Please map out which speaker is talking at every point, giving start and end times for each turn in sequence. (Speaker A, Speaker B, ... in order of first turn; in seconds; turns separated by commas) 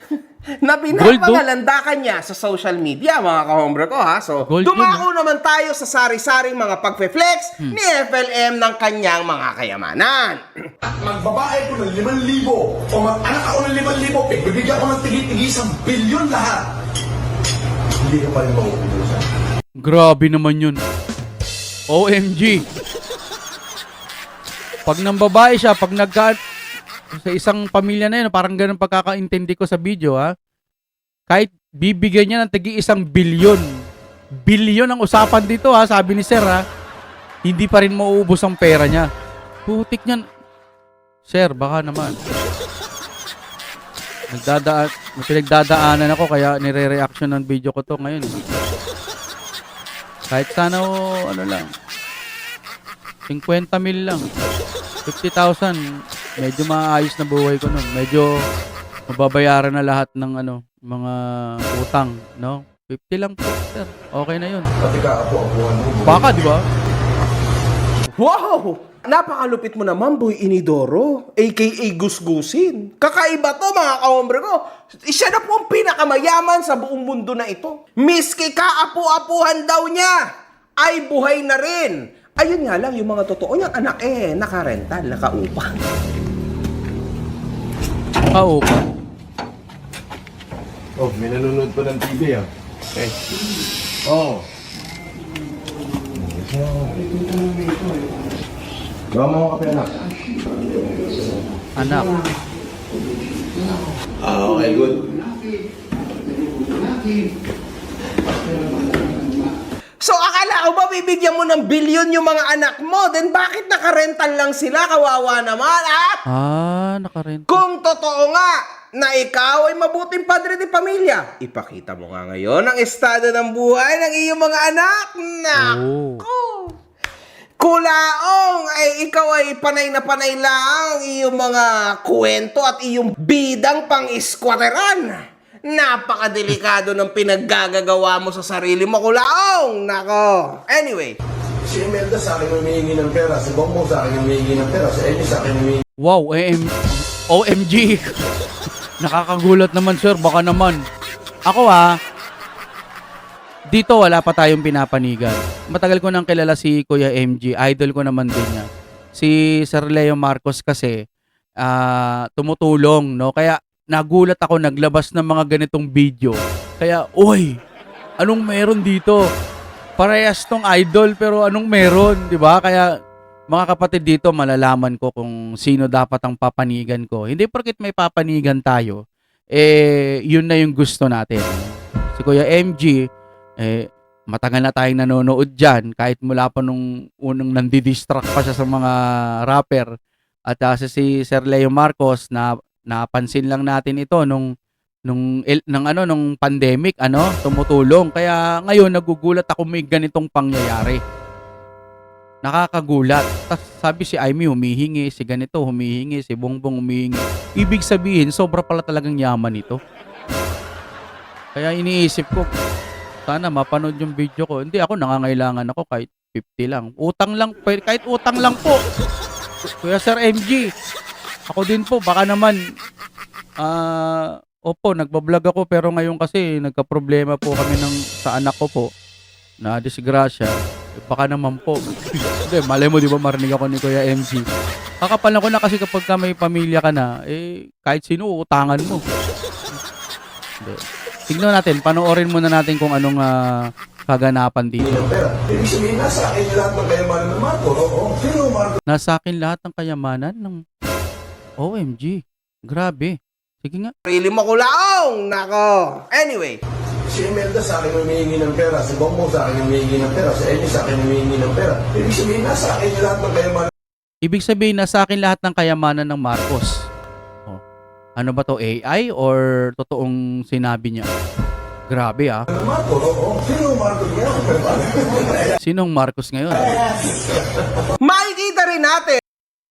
Speaker A: 0.6-10.4, Speaker B: 0.9-1.4, Speaker B: 4.5-5.0, Speaker C: 10.8-16.7, Speaker C: 18.0-19.3, Speaker B: 19.8-20.8, Speaker B: 21.9-22.6, Speaker B: 24.9-26.4, Speaker B: 27.1-30.3, Speaker B: 31.3-33.6, Speaker B: 34.5-36.6, Speaker B: 37.5-39.1, Speaker B: 39.7-40.2, Speaker B: 41.3-42.1, Speaker B: 44.3-48.4, Speaker B: 50.3-51.7, Speaker B: 53.3-54.2, Speaker B: 55.1-55.8, Speaker B: 56.4-58.3, Speaker B: 59.1-64.7, Speaker C: 64.8-66.3, Speaker B: 66.1-66.6, Speaker A: 68.2-80.3, Speaker A: 80.8-85.8, Speaker B: 88.3-88.8, Speaker D: 91.0-93.2, Speaker D: 94.0-94.5, Speaker D: 96.1-97.1, Speaker D: 99.1-100.0, Speaker B: 101.8-102.1, Speaker D: 104.2-105.2, Speaker A: 110.0-116.2, Speaker B: 116.3-117.6, Speaker A: 117.5-126.8, Speaker B: 125.5-126.2, Speaker A: 127.6-141.2, Speaker C: 141.6-145.8, Speaker B: 146.0-148.1, Speaker B: 149.0-150.8, Speaker B: 151.5-151.9, Speaker B: 153.7-161.0, Speaker B: 161.6-167.6, Speaker B: 168.2-169.2, Speaker B: 170.0-172.9, Speaker B: 173.5-179.0, Speaker B: 179.6-183.0, Speaker B: 183.6-189.0, Speaker B: 189.5-189.9, Speaker B: 190.5-194.5, Speaker B: 195.1-201.0, Speaker B: 202.4-209.8, Speaker B: 211.6-212.5, Speaker B: 213.3-218.8, Speaker B: 219.7-220.7, Speaker B: 221.5-222.6, Speaker B: 223.6-228.9, Speaker B: 229.6-231.8, Speaker B: 232.4-234.4, Speaker B: 235.0-239.0, Speaker B: 240.6-244.9, Speaker C: 244.8-248.8, Speaker B: 248.9-250.6, Speaker B: 251.6-253.9, Speaker A: 254.1-256.6, Speaker C: 257.1-263.7, Speaker B: 264.2-266.8, Speaker B: 268.2-271.1, Speaker B: 271.9-272.5, Speaker C: 272.5-275.5, Speaker B: 275.6-276.8, Speaker C: 276.6-277.2, Speaker A: 278.0-279.2